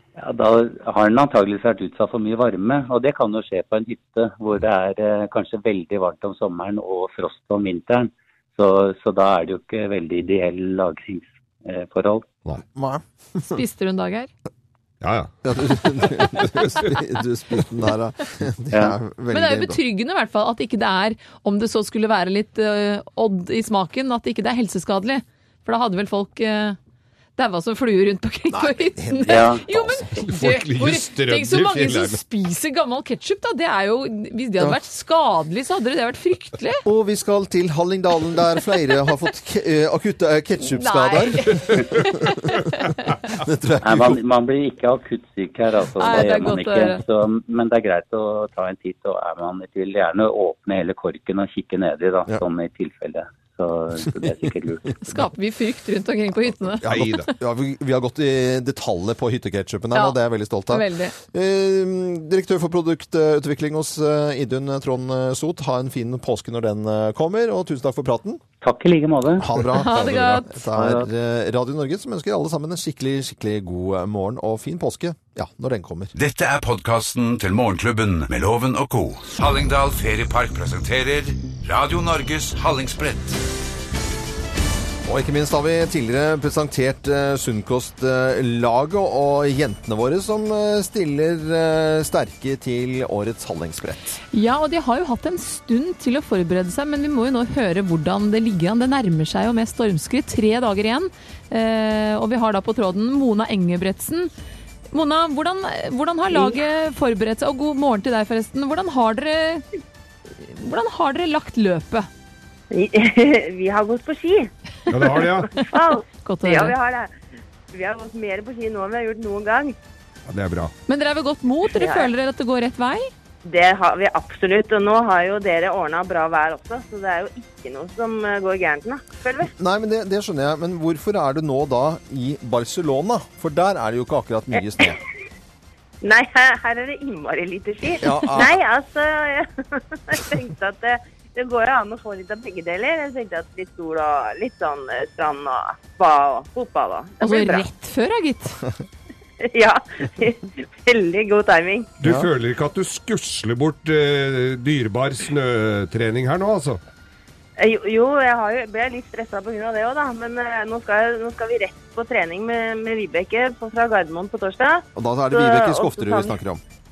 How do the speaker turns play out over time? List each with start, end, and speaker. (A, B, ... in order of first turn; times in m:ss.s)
0:00.2-0:12.3 A
0:12.8-0:13.6 B
0:13.5-0:14.3 C
0:15.0-0:17.0 D
0:15.4-0:19.8 B
0:19.3-0:26.8 C
0:27.4-0:36.8 C
0:28.5-0:30.2 B
0:29.3-0:29.6 A
0:30.2-0:32.2 D
0:36.8-0:42.6 B
0:40.7-0:43.0 C
0:43.3-0:44.2 B
0:43.8-0:55.0 A
0:46.0-0:47.0 C
0:55.0-0:56.9 C
0:56.8-1:08.4 B
0:56.9-0:57.3 D
1:00.7-1:01.2 C
1:08.6-1:09.6 A
1:09.4-1:16.1 B
1:09.7-1:10.5 C
1:10.7-1:11.1 A
1:16.2-1:23.4 E
1:25.0-1:34.2 B
1:34.3-1:44.3 C
1:44.9-1:49.6 C
1:50.4-1:52.1 C
1:52.7-1:54.5 F
1:54.9-1:55.5 D
1:55.0-1:57.1 F
1:56.2-1:56.8 C
1:57.7-1:59.8 F
2:00.3-2:00.7 D
2:00.9-2:03.1 C
2:01.7-2:02.1 F
2:03.4-2:09.5 F
2:09.6-2:15.0 B
2:16.0-2:27.7 F
2:18.0-2:18.6 B
2:27.2-2:28.6 C
2:29.4-2:31.9 F
2:32.0-2:36.8 D
2:32.0-2:32.3 B
2:37.6-2:46.4 F
2:45.0-2:46.6 B